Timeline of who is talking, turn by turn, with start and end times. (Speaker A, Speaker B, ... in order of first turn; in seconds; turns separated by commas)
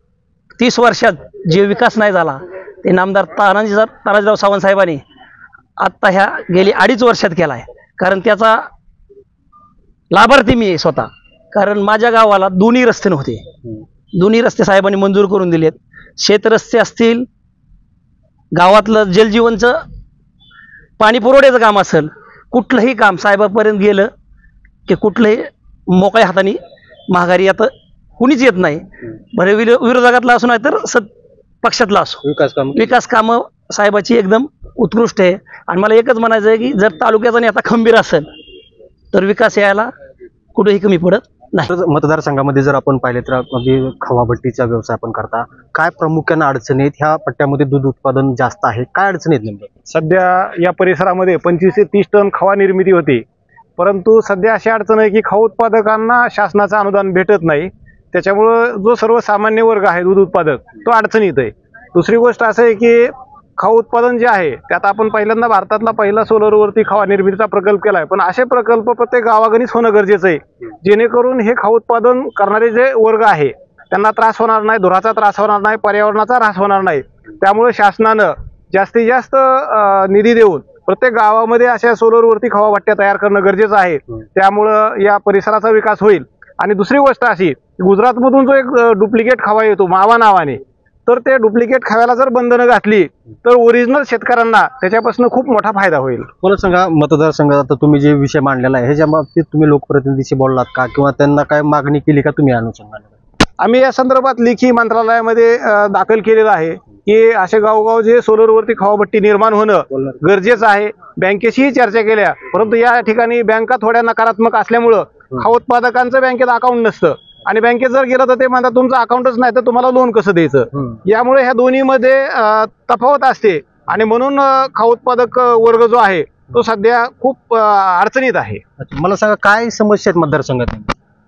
Speaker A: 0.6-5.0, Speaker A: 5.8-8.7, Speaker A: 10.1-13.4, Speaker A: 14.1-17.2, Speaker A: 18.5-19.8, Speaker A: 21.0-24.1, Speaker A: 24.9-26.6, Speaker A: 27.1-31.1, Speaker A: 31.6-32.2, Speaker B: 32.2-32.9, Speaker A: 32.7-38.3, Speaker A: 39.1-39.9, Speaker A: 40.5-41.6, Speaker B: 41.7-49.7, Speaker C: 49.9-53.2, Speaker C: 53.8-96.3, Speaker B: 96.4-103.1, Speaker C: 103.6-128.6, Speaker B: 128.8-130.9